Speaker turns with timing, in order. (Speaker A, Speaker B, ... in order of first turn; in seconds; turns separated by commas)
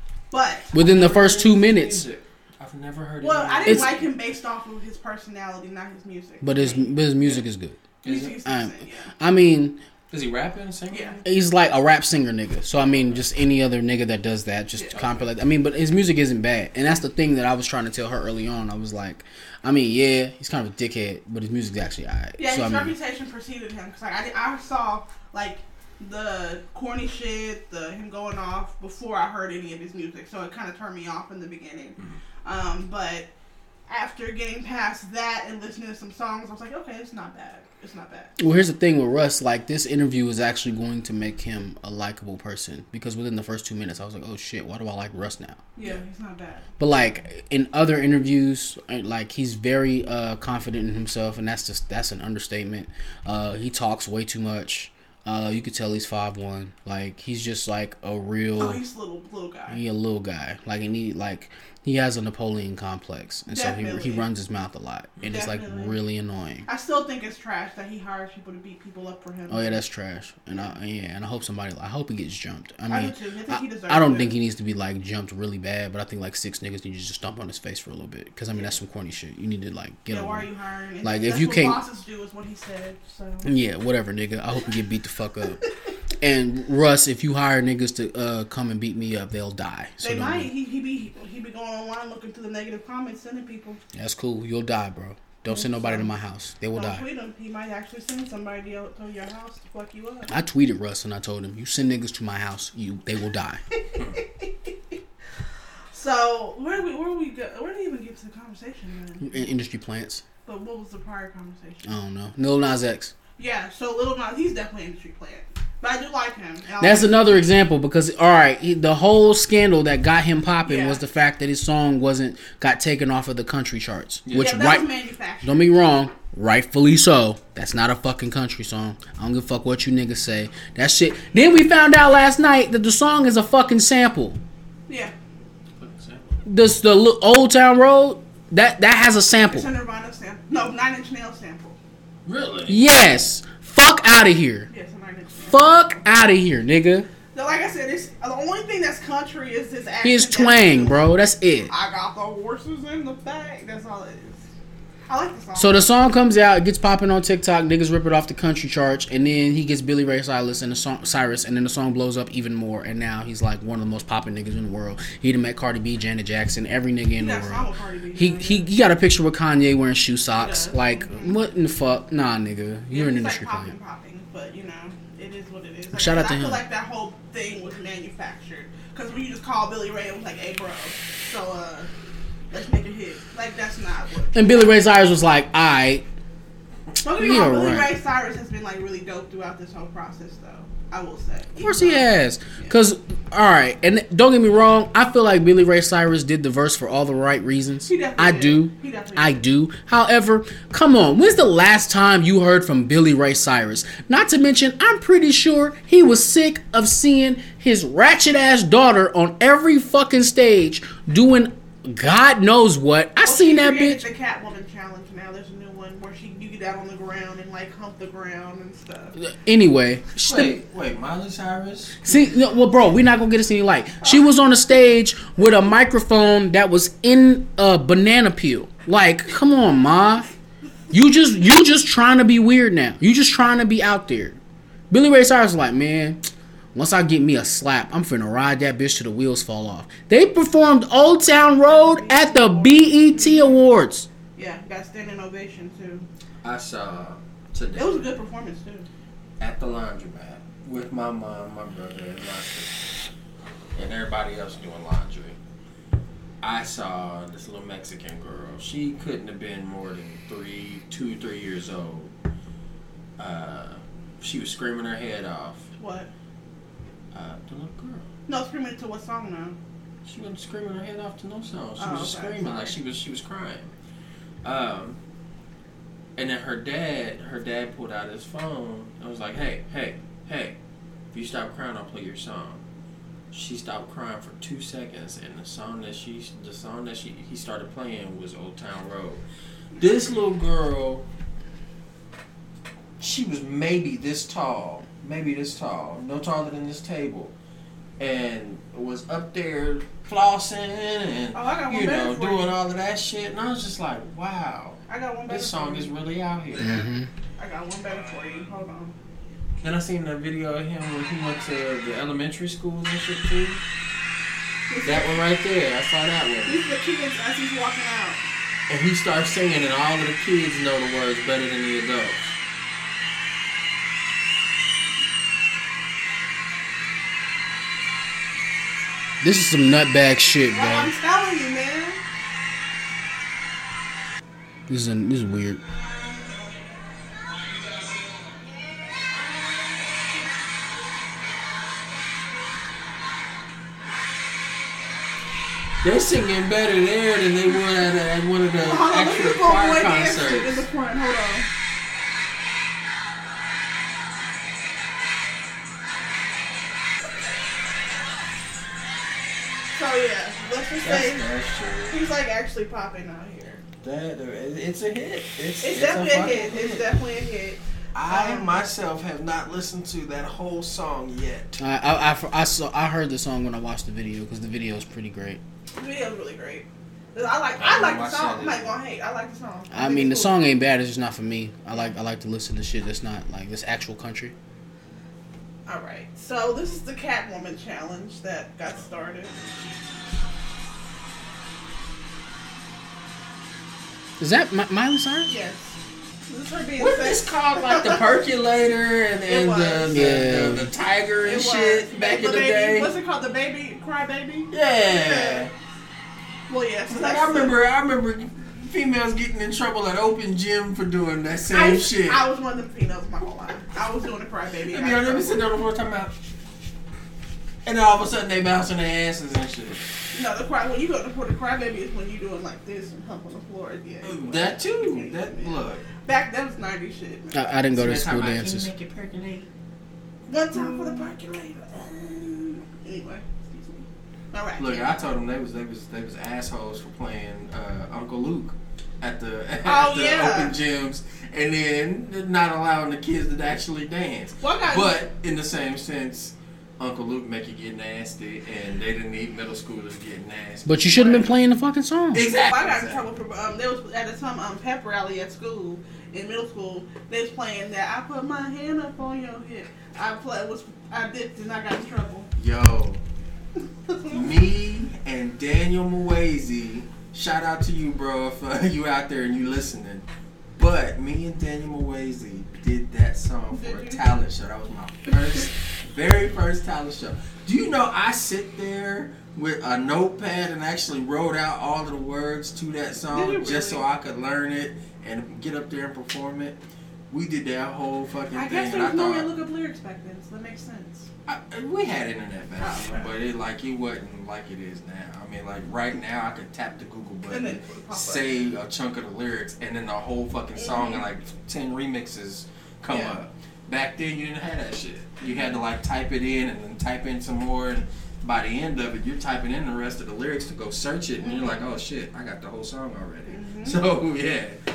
Speaker A: 0.3-0.8, Speaker B: 0.7-2.0, Speaker C: 0.7-4.1, Speaker A: 3.2-6.9, Speaker B: 3.6-3.9, Speaker B: 6.4-7.9, Speaker C: 8.0-8.4, Speaker A: 8.0-9.1, Speaker B: 8.4-9.8, Speaker C: 10.1-11.2, Speaker A: 10.9-11.2, Speaker B: 11.2-22.9, Speaker C: 12.9-13.2, Speaker C: 14.9-15.3, Speaker A: 22.4-33.3, Speaker A: 33.9-38.5, Speaker B: 38.4-45.6, Speaker A: 45.8-46.6, Speaker B: 46.8-58.8, Speaker A: 58.6-59.8, Speaker B: 59.7-66.7, Speaker A: 63.5-64.2, Speaker A: 65.2-66.0, Speaker A: 66.7-69.8, Speaker B: 69.5-80.5, Speaker A: 72.9-74.3, Speaker A: 80.1-83.5, Speaker B: 81.0-81.8, Speaker B: 83.4-85.6, Speaker B: 86.2-90.5, Speaker A: 90.0-93.8, Speaker B: 93.9-97.0, Speaker A: 95.5-96.1, Speaker A: 96.7-100.3, Speaker B: 100.3-103.6, Speaker A: 103.9-104.7, Speaker A: 105.9-109.5, Speaker B: 109.2-110.2, Speaker A: 110.5-111.9, Speaker B: 111.8-113.1, Speaker A: 113.4-117.2, Speaker B: 116.8-124.9, Speaker A: 120.6-121.0, Speaker C: 124.2-124.6, Speaker A: 124.3-125.7, Speaker B: 125.4-134.4, Speaker A: 134.9-135.1, Speaker C: 135.8-136.4, Speaker B: 136.4-139.7, Speaker A: 139.5-141.8, Speaker C: 142.2-142.8, Speaker B: 142.7-144.7, Speaker A: 144.7-145.8, Speaker B: 145.5-147.1, Speaker A: 147.3-151.1, Speaker B: 150.0-151.7, Speaker A: 151.7-154.4, Speaker A: 155.1-155.9, Speaker B: 155.6-173.7, Speaker A: 167.2-168.6, Speaker A: 170.4-171.4, Speaker A: 172.9-181.9, Speaker B: 175.9-176.6, Speaker A: 182.5-184.8, Speaker B: 184.3-186.0, Speaker A: 187.0-192.8, Speaker B: 187.1-187.9, Speaker B: 191.6-214.0, Speaker A: 197.9-199.4, Speaker A: 213.2-219.2, Speaker B: 219.2-220.6, Speaker C: 220.2-222.1, Speaker B: 222.0-230.3, Speaker B: 230.9-234.4, Speaker B: 234.9-244.1, Speaker A: 241.6-243.6, Speaker A: 244.3-246.1, Speaker C: 246.4-248.1, Speaker A: 247.8-248.9, Speaker C: 249.4-252.8, Speaker C: 253.7-255.4, Speaker C: 256.4-262.1, Speaker C: 263.2-265.7, Speaker A: 265.8-266.1, Speaker C: 267.1-268.1, Speaker A: 268.3-269.6, Speaker C: 270.0-273.7, Speaker A: 271.8-272.7, Speaker C: 274.4-275.0, Speaker C: 276.2-280.6, Speaker C: 281.1-282.6, Speaker C: 283.3-289.2, Speaker C: 289.8-291.1, Speaker C: 293.0-297.3, Speaker C: 298.0-306.8, Speaker A: 301.3-302.5, Speaker A: 304.9-305.9, Speaker B: 306.6-307.1, Speaker A: 307.4-308.9, Speaker C: 309.6-313.6, Speaker A: 314.7-315.2, Speaker C: 314.8-316.6, Speaker A: 316.4-318.2, Speaker C: 318.7-322.3, Speaker B: 329.2-330.9, Speaker A: 330.5-332.0, Speaker B: 334.7-335.6, Speaker C: 345.8-350.6, Speaker A: 348.6-351.5, Speaker A: 359.7-361.3, Speaker C: 360.8-362.0, Speaker A: 361.9-363.6, Speaker C: 363.8-367.0, Speaker A: 365.6-368.7, Speaker C: 367.9-371.6, Speaker B: 371.6-375.4, Speaker A: 375.8-380.4, Speaker C: 377.6-378.8, Speaker B: 379.7-384.3, Speaker A: 385.6-389.8, Speaker B: 394.2-395.3, Speaker A: 395.3-395.8, Speaker A: 396.3-398.0, Speaker C: 396.8-402.9, Speaker A: 399.3-400.2, Speaker B: 399.9-400.7, Speaker A: 401.2-405.5, Speaker C: 404.5-405.5, Speaker A: 406.5-407.5, Speaker C: 406.9-412.2, Speaker A: 411.5-415.4, Speaker C: 414.7-416.1, Speaker C: 417.6-419.8, Speaker A: 420.1-427.6, Speaker C: 424.0-425.9, Speaker B: 427.3-428.7, Speaker C: 427.7-429.4, Speaker A: 430.3-434.9, Speaker C: 430.5-431.0, Speaker C: 434.6-451.3, Speaker A: 439.6-440.5, Speaker A: 444.4-445.0, Speaker B: 450.6-452.3, Speaker C: 452.1-453.1, Speaker A: 452.4-462.3, Speaker C: 462.4-463.0, Speaker A: 463.9-464.3, Speaker C: 464.1-486.6, Speaker A: 473.5-474.0, Speaker A: 483.1-483.9, Speaker C: 487.1-489.3, Speaker A: 488.3-491.1, Speaker C: 491.2-514.6, Speaker A: 492.6-493.1, Speaker A: 497.3-498.4, Speaker A: 500.6-501.0, Speaker A: 502.9-503.2, Speaker A: 505.2-505.6, Speaker A: 511.2-511.6, Speaker A: 513.3-513.8